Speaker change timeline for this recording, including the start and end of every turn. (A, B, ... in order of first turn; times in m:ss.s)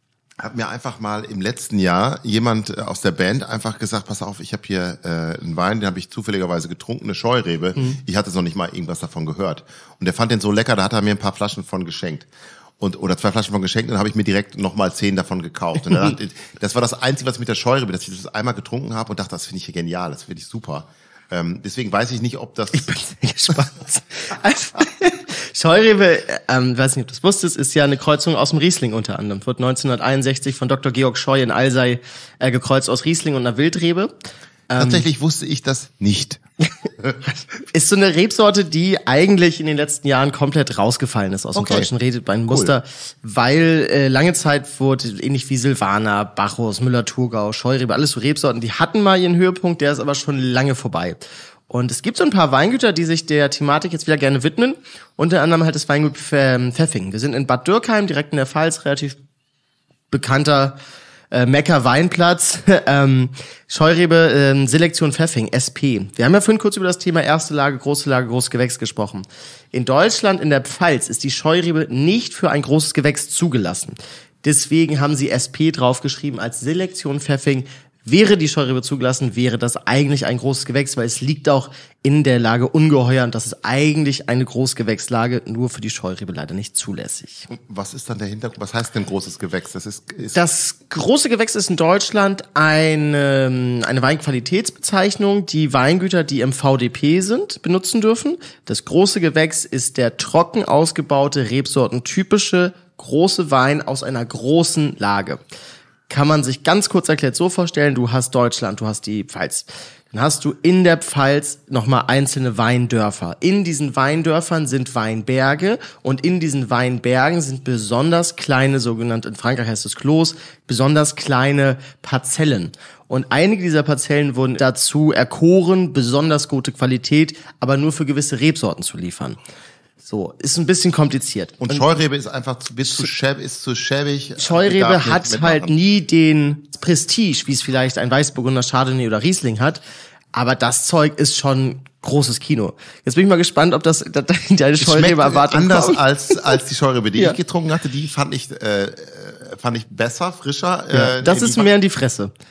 0:00.4-0:12.3 A
0:12.8-0:22.9 A
0:22.7-0:34.1 B
0:34.7-0:35.1 B
0:34.7-0:36.4 A
0:37.7-0:59.2 B
0:41.5-0:41.9 A
0:42.5-0:42.7 A
1:00.1-1:00.8 B
1:01.3-1:27.5 B
1:27.5-1:30.4 A
1:30.3-1:45.4 B
1:46.1-2:09.4 B
2:10.0-2:11.9 B
2:11.6-2:15.7 A
2:14.4-2:19.8 B
2:20.3-2:26.4 B
2:24.8-2:31.7 A
2:30.9-2:32.3 B